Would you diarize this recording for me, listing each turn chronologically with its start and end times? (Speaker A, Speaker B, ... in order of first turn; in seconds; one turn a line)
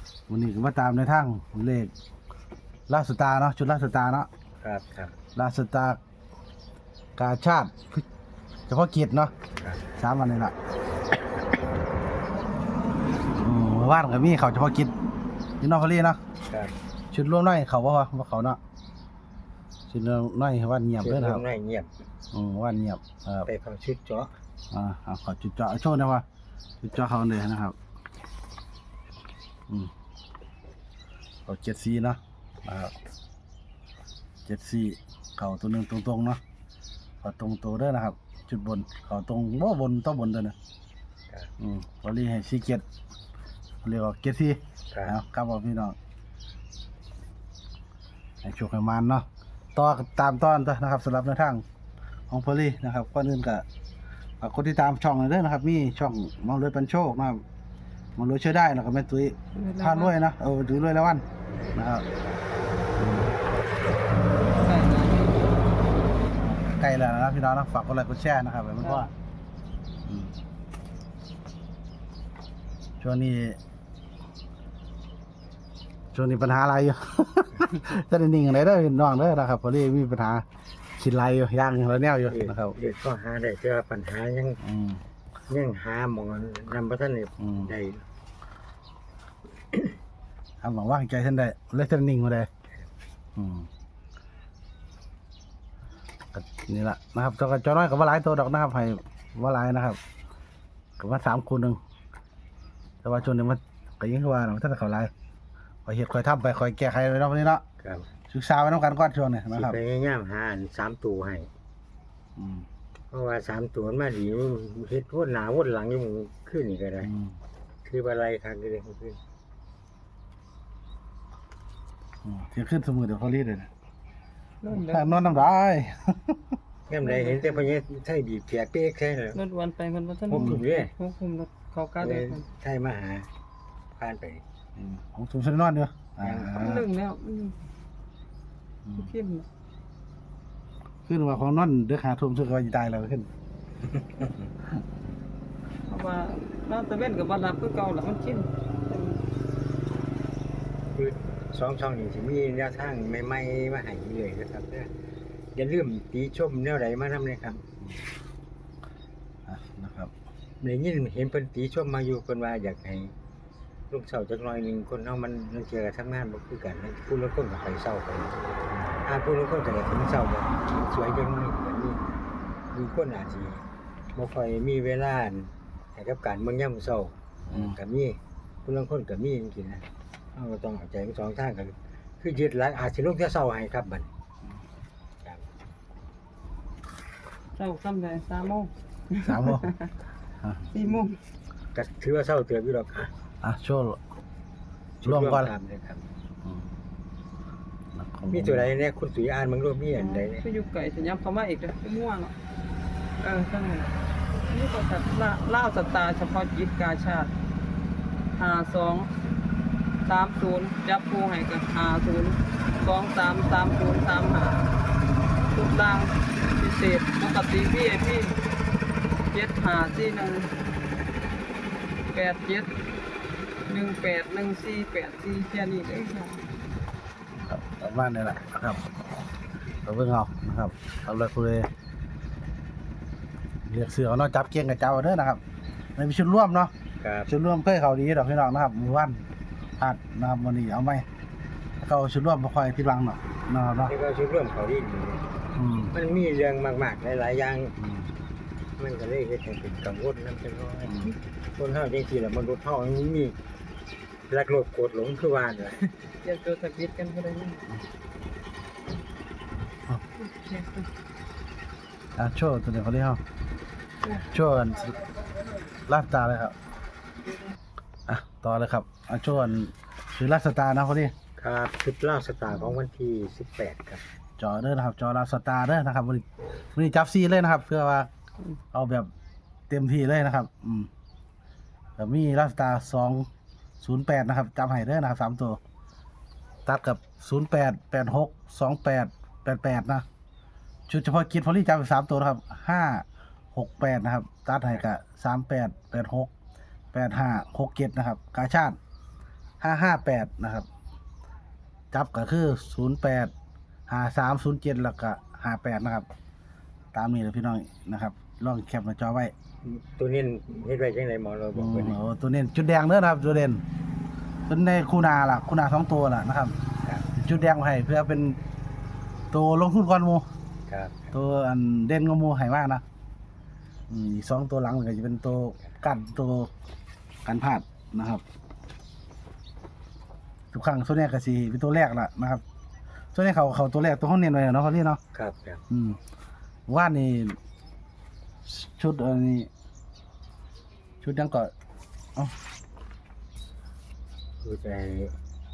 Speaker A: 0.3-1.9
Speaker A: 2.9-4.3
Speaker B: 4.6-5.2
Speaker A: 5.3-6.0
Speaker A: 7.2-8.1
Speaker A: 8.7-9.3
Speaker B: 9.6-9.9
Speaker A: 10.0-10.5
Speaker A: 13.4-14.9
Speaker A: 15.6-16.2
Speaker B: 16.5-16.8
Speaker A: 17.1-18.6
Speaker A: 19.9-21.4
Speaker B: 21.0-21.9
Speaker A: 22.3-23.5
Speaker B: 23.5-24.3
Speaker A: 24.7-26.2
Speaker A: 26.8-27.8
Speaker A: 31.5-33.0
Speaker A: 34.5-36.4
Speaker A: 37.2-40.5
Speaker A: 41.6-42.8
Speaker A: 43.8-46.0
Speaker B: 44.9-45.2
Speaker A: 48.4-51.6
Speaker A: 52.3-53.6
Speaker A: 54.4-57.4
Speaker A: 58.2-62.1
Speaker B: 59.6-60.1
Speaker A: 63.0-63.3
Speaker B: 64.6-65.5
Speaker C: 64.7-65.5
Speaker A: 66.4-69.1
Speaker A: 70.1-70.4
Speaker A: 73.0-73.6
Speaker A: 76.1-80.5
Speaker A: 81.0-82.8
Speaker B: 82.3-84.6
Speaker A: 84.6-85.0
Speaker B: 85.5-88.0
Speaker A: 87.4-87.7
Speaker A: 90.6-92.5
Speaker A: 93.4-93.7
Speaker A: 96.3-100.0
Speaker A: 101.0-101.8
Speaker A: 103.0-105.1
Speaker A: 105.9-107.6
Speaker B: 107.8-108.1
Speaker A: 108.3-109.8
Speaker B: 109.5-111.5
Speaker A: 112.4-112.7
Speaker B: 113.1-117.1
Speaker A: 117.0-117.4
Speaker B: 117.8-119.2
Speaker A: 122.2-123.7
Speaker A: 124.7-126.5
Speaker B: 124.8-125.2
Speaker B: 126.9-133.3
Speaker C: 129.4-132.4
Speaker A: 130.3-130.6
Speaker B: 134.0-134.4
Speaker A: 134.8-136.9
Speaker B: 136.2-137.5
Speaker C: 136.7-137.6
Speaker A: 138.8-139.1
Speaker B: 139.0-139.4
Speaker A: 141.1-143.3
Speaker B: 143.8-144.3
Speaker B: 145.9-149.2
Speaker C: 146.0-148.4
Speaker B: 150.9-154.9
Speaker B: 155.6-157.6
Speaker A: 159.5-160.1
Speaker B: 160.6-163.2
Speaker B: 163.9-168.4
Speaker B: 169.0-172.0
Speaker B: 172.7-184.1
Speaker A: 177.5-177.8
Speaker C: 187.6-188.7
Speaker B: 187.6-188.2
Speaker A: 189.2-189.8
Speaker B: 189.4-189.7
Speaker A: 190.4-190.7
Speaker C: 190.7-191.1
Speaker B: 190.7-191.2
Speaker B: 191.7-193.1
Speaker A: 193.4-194.0
Speaker B: 195.0-196.1
Speaker A: 195.0-195.5
Speaker A: 197.9-198.7
Speaker B: 198.3-202.2
Speaker C: 200.0-202.3
Speaker B: 203.2-203.8
Speaker C: 203.2-203.9
Speaker B: 204.5-207.2
Speaker C: 204.5-207.3
Speaker B: 208.4-209.1
Speaker C: 208.6-209.1
Speaker B: 210.1-212.3
Speaker C: 210.1-212.4
Speaker B: 212.8-214.7
Speaker C: 213.1-214.7
Speaker B: 215.6-218.3
Speaker C: 215.6-216.1
Speaker C: 216.6-218.3
Speaker B: 219.3-220.5
Speaker C: 219.3-220.5
Speaker B: 222.1-222.7
Speaker C: 222.3-222.7
Speaker B: 223.7-226.4
Speaker C: 223.7-226.4
Speaker A: 227.5-228.8
Speaker A: 229.8-231.7
Speaker A: 233.7-235.4
Speaker A: 236.0-236.7
Speaker B: 237.0-237.3
Speaker A: 237.3-239.3
Speaker A: 239.8-241.1
Speaker A: 241.8-243.9
Speaker B: 243.9-245.3
Speaker A: 245.6-245.9
Speaker B: 245.9-247.8
Speaker A: 247.8-248.1
Speaker B: 248.8-253.4
Speaker A: 250.9-251.2
Speaker B: 254.3-257.6
Speaker C: 256.4-257.6
Speaker B: 260.2-260.7
Speaker C: 260.3-260.9
Speaker A: 262.2-263.2
Speaker A: 264.1-265.1
Speaker A: 265.9-266.6
Speaker A: 268.1-271.1
Speaker B: 271.4-274.0
Speaker A: 274.4-278.1
Speaker A: 278.7-279.1
Speaker A: 279.7-280.9
Speaker A: 282.0-283.3
Speaker A: 283.8-285.6
Speaker A: 286.7-290.1
Speaker A: 290.9-296.3
Speaker A: 296.9-298.8
Speaker A: 299.6-300.7
Speaker A: 301.9-303.3
Speaker A: 303.9-306.1
Speaker A: 306.9-309.3
Speaker B: 309.6-312.0
Speaker A: 311.6-313.6
Speaker A: 314.5-316.6
Speaker B: 316.8-317.1
Speaker A: 317.1-318.4
Speaker A: 319.3-320.2
Speaker B: 320.7-321.1
Speaker A: 321.1-322.8
Speaker A: 323.9-326.5
Speaker A: 327.2-328.2
Speaker A: 330.5-332.4
Speaker A: 333.1-335.0
Speaker B: 335.1-335.6
Speaker A: 335.7-336.0
Speaker A: 336.7-337.4
Speaker A: 338.5-339.5
Speaker A: 341.0-341.5
Speaker B: 344.4-345.1